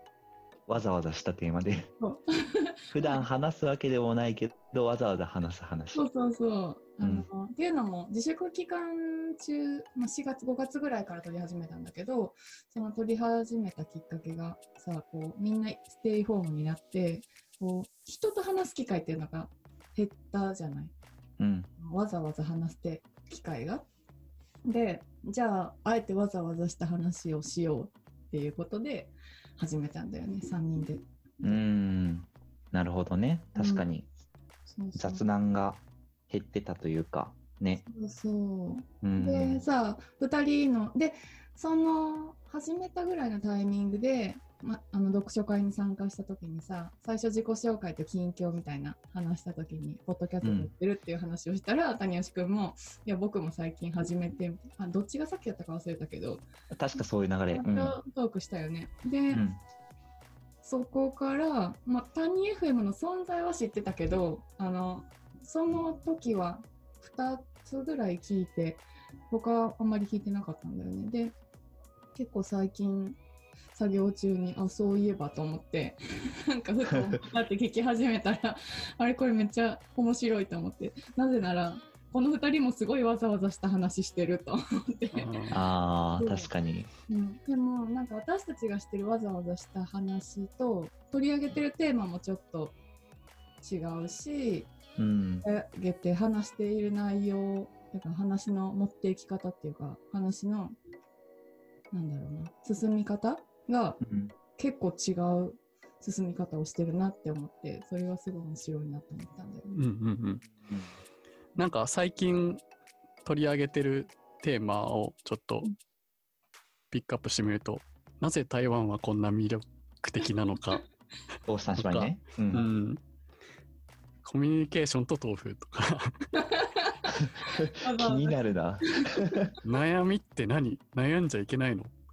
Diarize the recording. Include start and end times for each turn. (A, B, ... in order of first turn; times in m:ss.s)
0:00.7-0:01.9 A
0:02.0-0:03.3 B
0:02.9-0:06.0 A
0:05.9-0:20.9 B
0:07.0-0:07.3 A
0:21.4-0:21.7 A
0:21.8-0:23.9 B
0:24.7-0:31.6 B
0:31.4-0:34.1 A
0:33.6-0:33.9 B
0:34.7-0:35.2 B
0:35.0-0:37.8 A
0:37.8-0:56.4 B
0:39.0-0:39.6 A
0:50.4-0:50.7 A
0:56.7-0:58.0 A
0:57.5-0:59.4 B
0:59.3-0:59.6 A
1:00.6-1:11.4 B
1:12.2-1:13.2 B
1:13.7-1:25.5 B
1:25.1-1:25.6 C
1:25.5-1:26.9 A
1:26.2-1:26.5 B
1:27.1-1:32.8 B
1:33.6-1:34.7 B
1:35.0-1:35.5 A
1:35.4-1:40.8 B
1:41.9-1:44.0 B
1:44.0-1:44.4 A
1:44.6-1:49.8 B
1:49.7-1:50.4 C
1:50.7-1:50.9 A
1:51.6-1:52.6 C
1:53.2-1:55.7 C
1:56.9-2:00.9 C
2:01.5-2:02.7 A
2:01.8-2:03.0 C
2:04.2-2:06.1 C
2:06.4-2:09.5 B
2:07.5-2:09.5 A
2:09.6-2:11.9 C